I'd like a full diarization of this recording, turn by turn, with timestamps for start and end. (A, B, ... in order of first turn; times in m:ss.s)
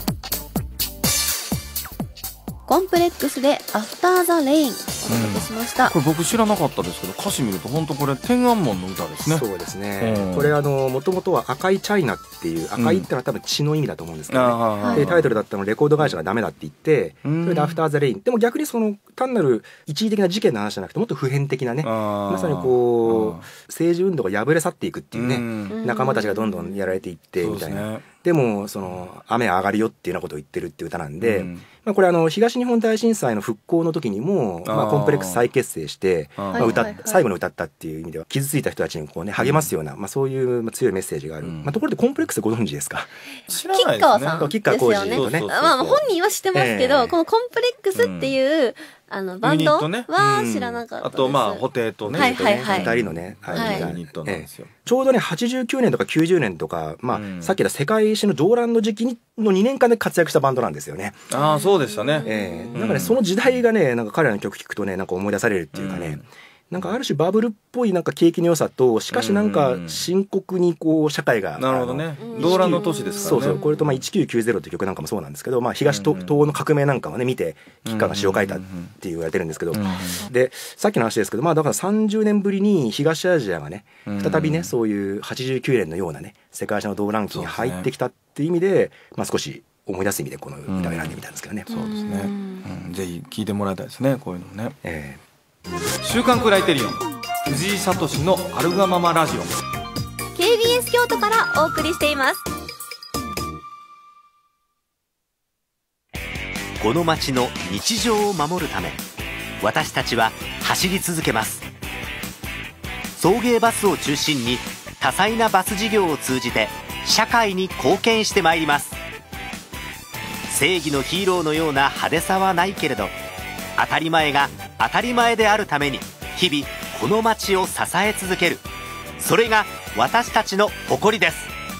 0:02.7-0:05.9 A
0:05.1-0:09.4 B
0:09.2-0:43.1 C
0:10.0-0:10.5 B
0:12.8-0:13.1 B
0:14.3-0:15.3 B
0:14.8-0:15.1 A
0:17.2-0:17.8 B
0:21.8-0:23.5 B
0:25.1-0:25.8 B
0:25.7-0:26.9 A
0:27.4-0:28.1 B
0:31.2-0:31.7 B
0:34.6-0:35.5 B
0:36.4-0:36.8 B
0:36.5-0:37.2 A
0:39.4-0:39.7 B
0:41.4-0:41.8 B
0:43.5-0:44.5 B
0:43.7-0:52.9 A
0:44.4-0:45.5 C
0:45.1-0:46.1 B
0:46.5-0:47.2 C
0:47.9-0:48.4 B
0:49.4-0:54.7 B
0:52.0-1:01.2 C
0:53.5-0:53.9 A
0:57.1-0:57.6 B
1:01.3-1:03.2 B
1:01.3-1:03.0 A
1:02.2-1:31.7 C
1:05.7-1:06.2 B
1:09.1-1:10.0 B
1:11.6-1:13.6 B
1:12.2-1:14.0 A
1:15.9-1:16.6 B
1:17.8-1:19.0 B
1:19.7-1:20.2 B
1:24.1-1:24.7 B
1:27.3-1:27.9 B
1:30.7-1:34.8 B
1:31.7-1:32.6 A
1:34.8-1:35.2 C
1:36.0-1:39.6 B
1:40.4-1:42.4 A
1:46.8-1:49.0 D
1:49.6-1:51.7 D
1:53.2-1:59.0 D
2:00.5-2:03.1 D
2:03.8-2:08.6 D
2:09.2-2:11.5 D